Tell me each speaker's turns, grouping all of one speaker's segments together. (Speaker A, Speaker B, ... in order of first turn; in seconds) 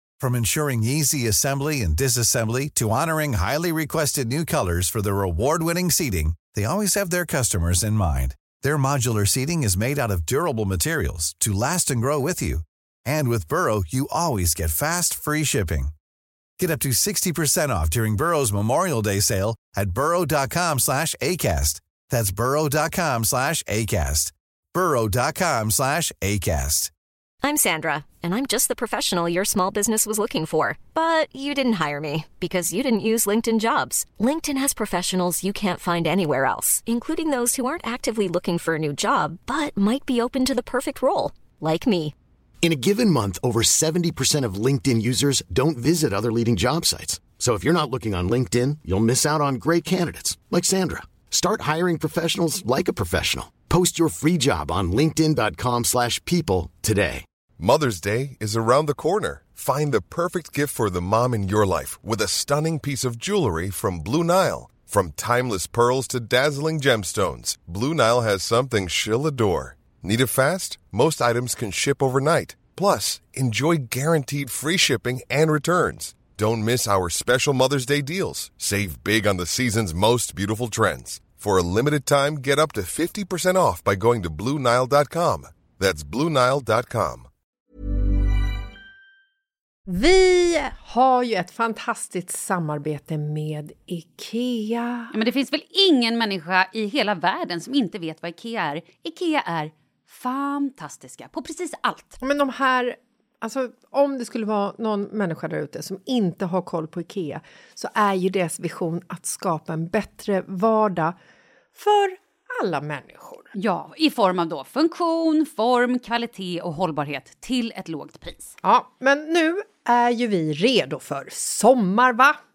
Speaker A: 0.2-15.9, 16.6-26.9
Speaker B: 27.4-42.1
Speaker C: 42.6-57.2
Speaker D: 57.6-87.3
Speaker E: 89.9-95.1, 102.2-111.1, 111.7-113.5, 118.6-122.4
Speaker F: 95.1-102.2, 113.5-118.5